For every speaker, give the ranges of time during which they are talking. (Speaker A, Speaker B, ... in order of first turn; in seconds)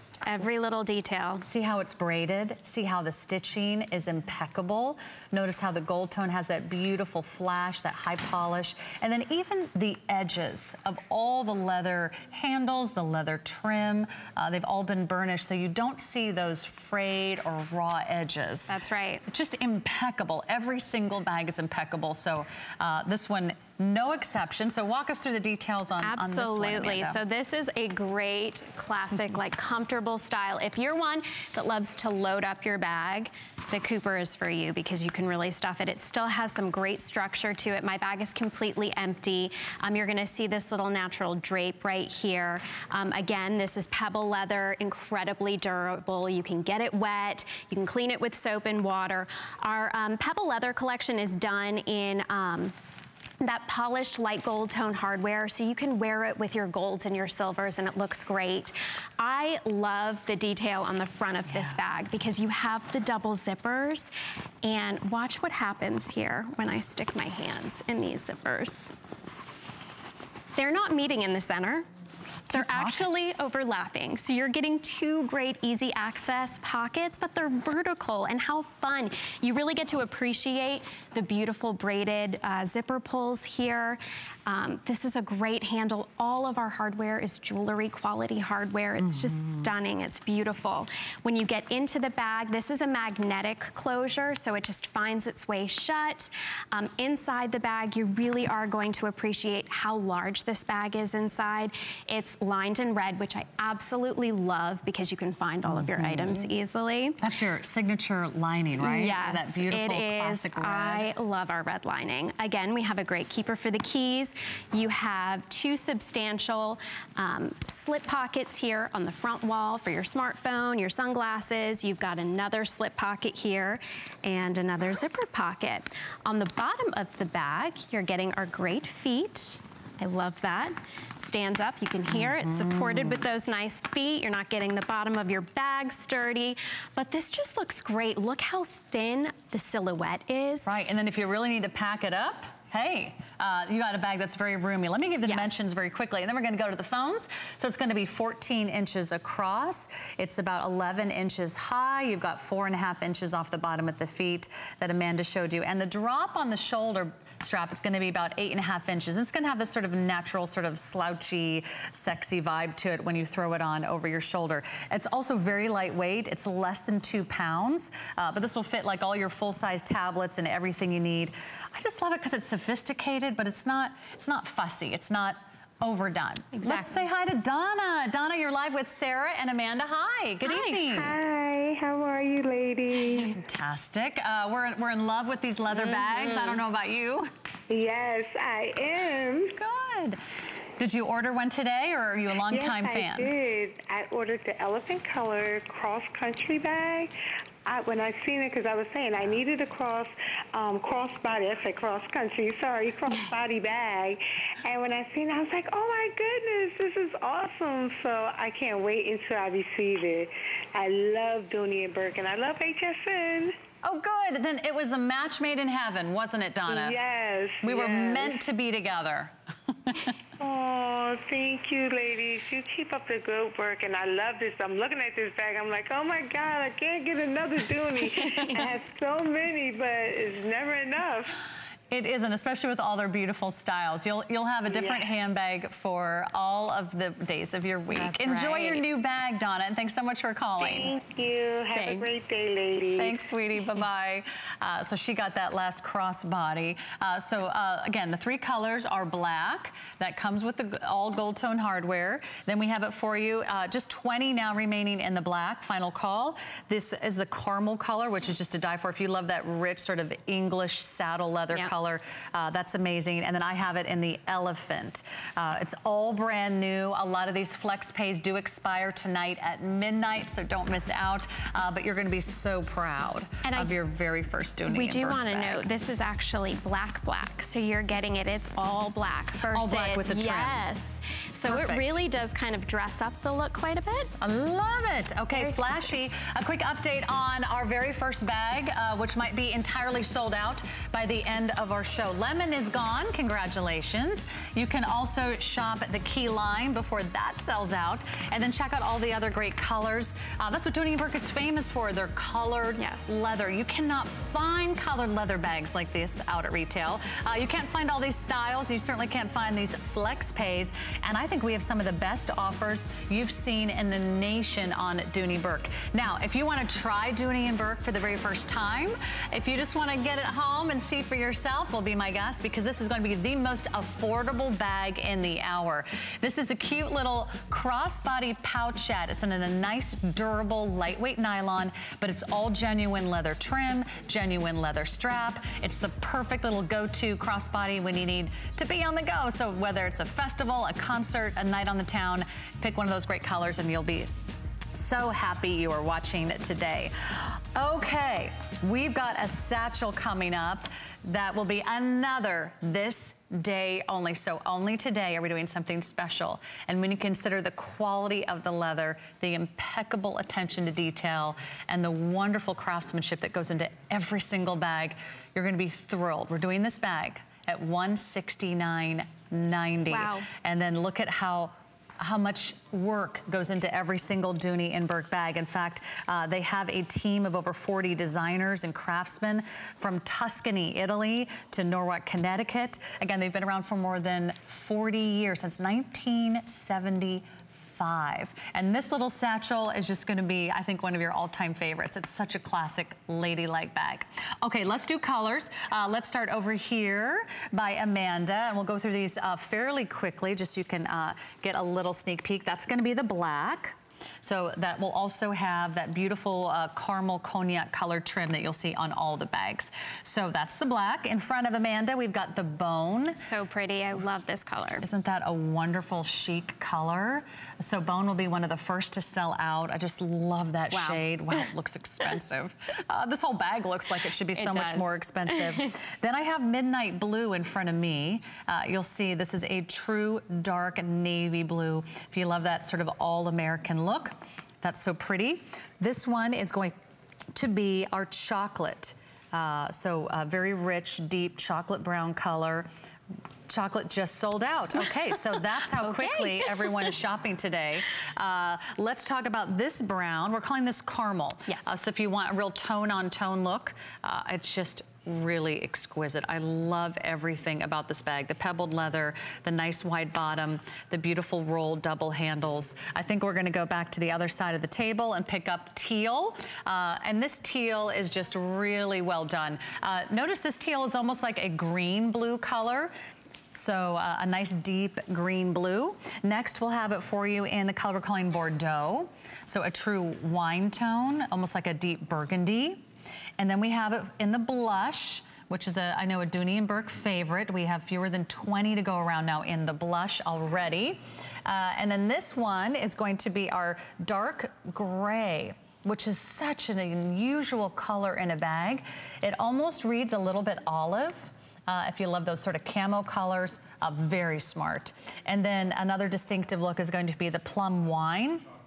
Speaker A: 0.2-1.4, 18.7-19.2, 26.0-52.8, 53.4-64.1, 64.6-68.9, 70.5-71.9, 72.5-107.2, 108.8-140.7, 145.2-145.7, 176.5-177.0, 185.7-186.6, 237.9-238.8, 241.7-242.1, 273.4-273.7, 274.6-284.1, 285.3-285.6, 302.8-303.1, 369.9-370.3, 413.2-414.9, 420.7-421.0, 424.4-425.7, 445.8-446.7
Speaker B: 1.4-18.7, 19.3-27.2, 72.5-73.5, 105.7-106.5, 107.2-111.1, 132.2-133.2, 140.7-181.1, 183.3-187.3, 189.6-190.2, 190.8-193.3, 213.8-217.0, 217.6-219.3, 231.9-240.9, 243.0-275.6, 279.5-280.6, 281.4-282.0, 284.2-344.1, 344.7-413.2, 414.8-436.7, 437.3-442.7, 443.5-472.9, 473.5-482.9, 483.4-508.4
Speaker C: 180.5-183.4, 187.7-189.5, 192.5-197.1, 197.7-213.6, 216.7-218.4, 220.4-231.3, 240.6-243.2